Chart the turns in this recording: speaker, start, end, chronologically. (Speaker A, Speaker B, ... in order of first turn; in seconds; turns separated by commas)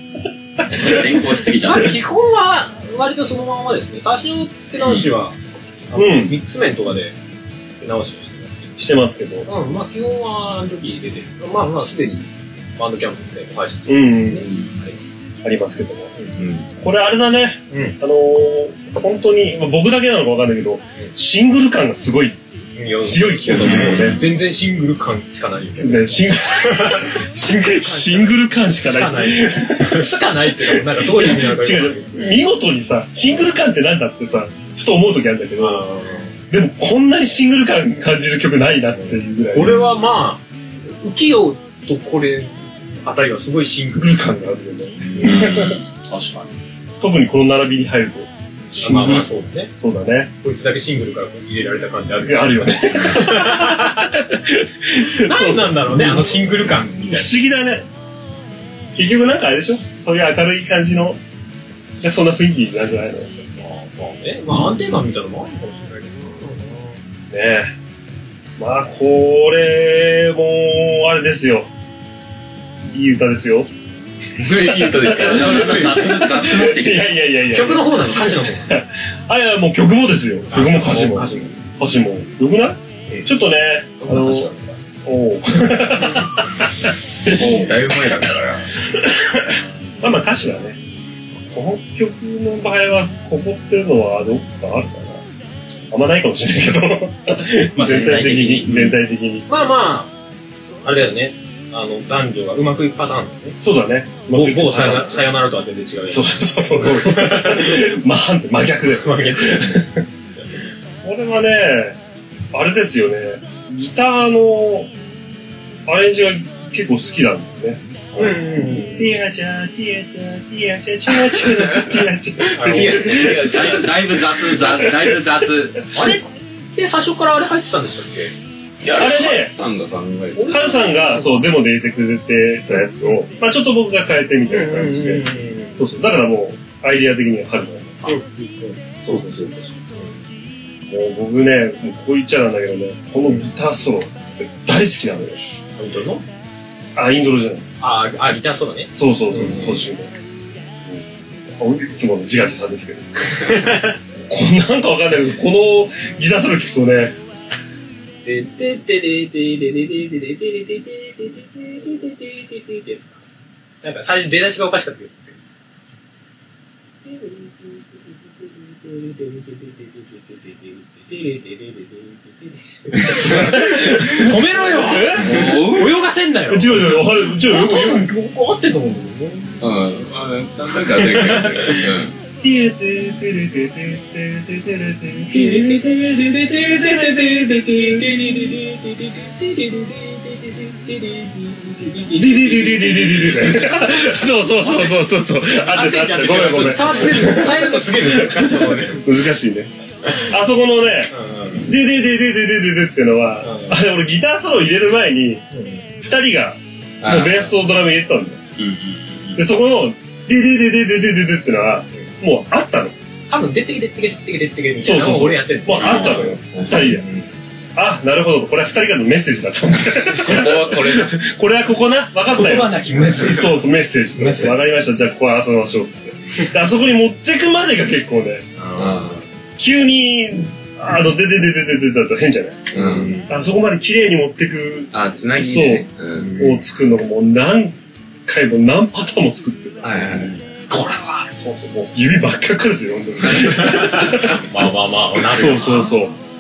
Speaker A: 0.6-1.4, Speaker B: 0.7-1.9, Speaker C: 1.6-5.4, Speaker C: 5.9-7.2, Speaker A: 5.9-6.3, Speaker C: 7.8-8.7, Speaker A: 8.8-9.5, Speaker C: 9.4-15.1, Speaker A: 13.9-14.5, Speaker A: 15.4-16.1, Speaker D: 16.4-16.7, Speaker A: 16.8-22.4, Speaker C: 17.7-18.0, Speaker C: 22.8-32.3, Speaker A: 23.0-24.2, Speaker D: 23.5-24.2, Speaker A: 25.8-35.9, Speaker C: 35.6-36.3, Speaker A: 36.5-39.9, Speaker C: 38.9-44.3, Speaker A: 43.9-45.8, Speaker C: 45.1-45.4, Speaker B: 45.2-46.5, Speaker A: 47.0-50.3, Speaker C: 48.7-49.7, Speaker C: 50.4-54.1, Speaker A: 52.2-57.9, Speaker C: 55.1-57.3, Speaker A: 58.9-61.2, Speaker A: 62.0-63.4, Speaker C: 63.6-67.0, Speaker A: 67.3-67.7, Speaker A: 68.6-71.7, Speaker A: 72.9-73.7, Speaker D: 74.4-76.8, Speaker A: 74.5-84.5, Speaker C: 75.1-76.2, Speaker B: 75.3-77.0, Speaker C: 77.5-78.8, Speaker C: 80.5-81.6, Speaker D: 84.0-84.5, Speaker A: 85.0-88.0, Speaker D: 87.2-88.8, Speaker A: 88.8-90.8, Speaker A: 91.4-95.2, Speaker A: 95.9-99.5, Speaker B: 97.8-99.0, Speaker C: 99.5-100.1, Speaker C: 100.8-103.6, Speaker A: 103.6-105.2, Speaker C: 104.3-107.9, Speaker A: 106.0-110.0, Speaker C: 109.0-109.8, Speaker A: 111.0-112.0, Speaker A: 112.5-114.9, Speaker A: 115.9-125.2, Speaker C: 118.2-119.1, Speaker C: 122.5-123.2, Speaker D: 122.5-125.9, Speaker C: 125.9-128.3, Speaker D: 128.8-130.6, Speaker A: 128.9-129.5, Speaker C: 130.3-131.5, Speaker A: 130.4-138.2, Speaker C: 134.5-135.8, Speaker C: 138.0-140.2, Speaker A: 139.0-139.6, Speaker A: 140.9-145.4, Speaker C: 143.2-143.5, Speaker C: 145.8-146.2, Speaker A: 146.9-147.7, Speaker C: 147.8-149.7, Speaker A: 148.9-150.1, Speaker A: 150.8-157.2, Speaker C: 153.4-153.9, Speaker C: 158.2-163.2, Speaker C: 163.8-165.4, Speaker C: 167.0-179.7, Speaker A: 173.1-175.5, Speaker D: 175.2-175.9, Speaker A: 176.5-178.1, Speaker D: 179.6-182.1, Speaker C: 180.8-181.9, Speaker A: 182.4-186.0, Speaker C: 185.3-194.0, Speaker A: 186.5-188.3, Speaker A: 192.2-205.4, Speaker C: 195.6-199.1, Speaker C: 201.1-201.7, Speaker C: 203.4-203.8, Speaker C: 205.5-205.8, Speaker A: 206.0-208.4, Speaker D: 207.0-207.4, Speaker B: 208.6-209.4, Speaker A: 209.3-212.9, Speaker C: 213.3-217.2, Speaker A: 214.8-217.0, Speaker D: 216.5-217.0, Speaker A: 217.7-228.5, Speaker D: 220.2-221.1, Speaker C: 222.3-224.6, Speaker C: 228.6-229.2, Speaker D: 228.8-229.2, Speaker A: 229.6-244.4, Speaker C: 232.7-233.3, Speaker D: 232.7-233.2, Speaker D: 234.9-236.3, Speaker C: 236.1-236.6, Speaker D: 239.8-240.4, Speaker C: 240.7-241.3, Speaker C: 243.3-246.0, Speaker A: 245.2-246.2